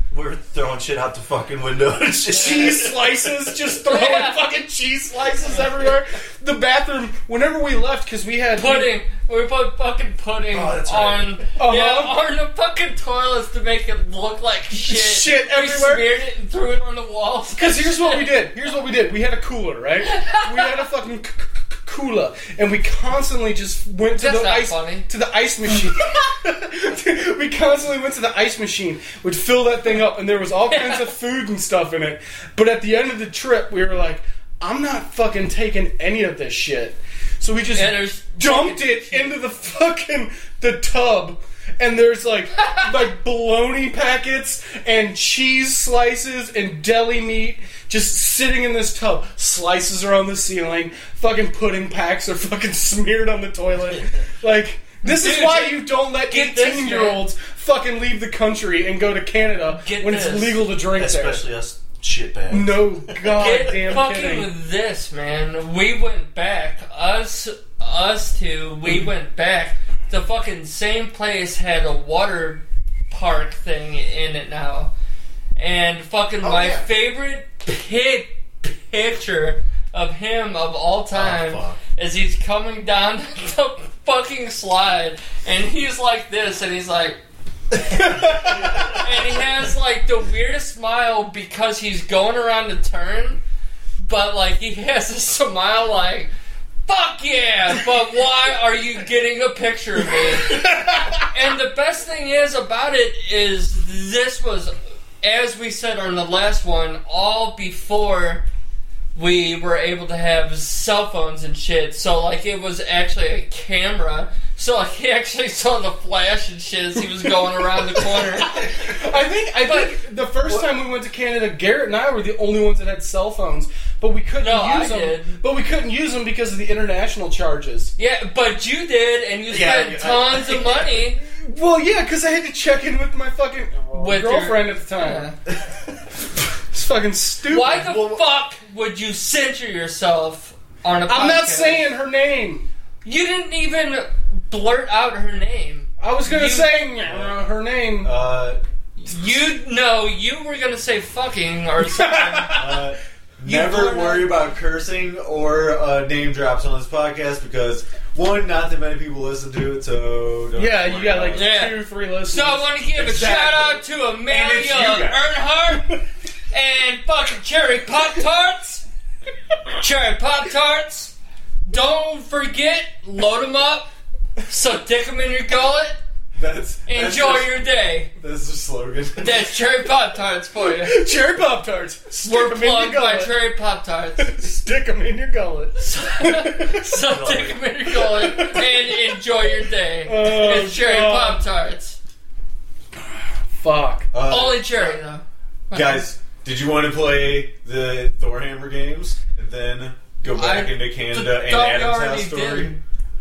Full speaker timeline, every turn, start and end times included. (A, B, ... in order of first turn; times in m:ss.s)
0:00.1-0:03.4 A
0:02.3-0:08.9 B
0:03.8-0:04.4 C
0:08.5-0:18.4 C
0:10.5-0:11.5 A
0:11.6-0:12.2 B
0:14.7-0:16.1 B
0:17.6-1:01.4 B
0:20.1-0:20.6 C
0:24.1-0:25.0 C
0:30.7-0:31.1 C
0:37.7-0:39.4 C
0:55.0-0:57.2 C
0:59.8-1:00.6 C
1:00.9-1:03.5 A
1:02.5-1:04.5 B
1:03.3-1:14.9 C
1:15.6-1:27.2 C
1:16.4-1:16.8 A
1:21.1-1:21.8 A
1:28.0-1:28.4 B
1:28.9-1:33.4 C
1:34.0-1:36.3 C
1:36.8-1:48.4 C
1:49.1-1:58.9 C
1:58.8-2:07.9 B
1:59.6-2:00.0 C
2:04.4-2:05.4 C
2:08.0-2:11.2 C
2:09.5-2:10.9 A
2:11.2-2:15.3 B
2:13.9-2:15.4 C
2:16.7-2:17.9 B
2:17.5-2:21.9 C
2:17.7-2:18.2 D
2:21.1-2:22.6 B
2:23.0-2:26.8 C
2:26.0-2:28.1 B
2:27.0-2:27.4 D
2:28.0-2:28.6 D
2:29.0-2:32.7 C
2:32.0-2:32.7 B
2:32.5-2:41.5 D
2:33.5-2:34.3 C
2:40.6-2:42.7 B
2:41.3-2:46.0 C
2:42.9-2:45.2 D
2:46.5-2:48.8 C
2:49.8-2:51.1 C
2:51.6-2:53.9 C
2:54.5-2:56.0 C
2:56.3-2:57.6 D
2:56.9-2:58.1 C
2:58.2-2:59.4 D
2:59.2-3:01.0 C
3:00.8-3:03.5 B
3:02.2-3:04.5 C
3:04.2-3:07.0 B
3:05.8-3:12.0 C
3:07.1-3:07.5 D
3:07.9-3:08.9 B
3:10.0-3:11.4 B
3:13.6-3:14.1 B
3:14.1-3:15.0 D
3:14.2-3:16.0 C
3:15.7-3:22.8 D
3:20.3-3:22.8 C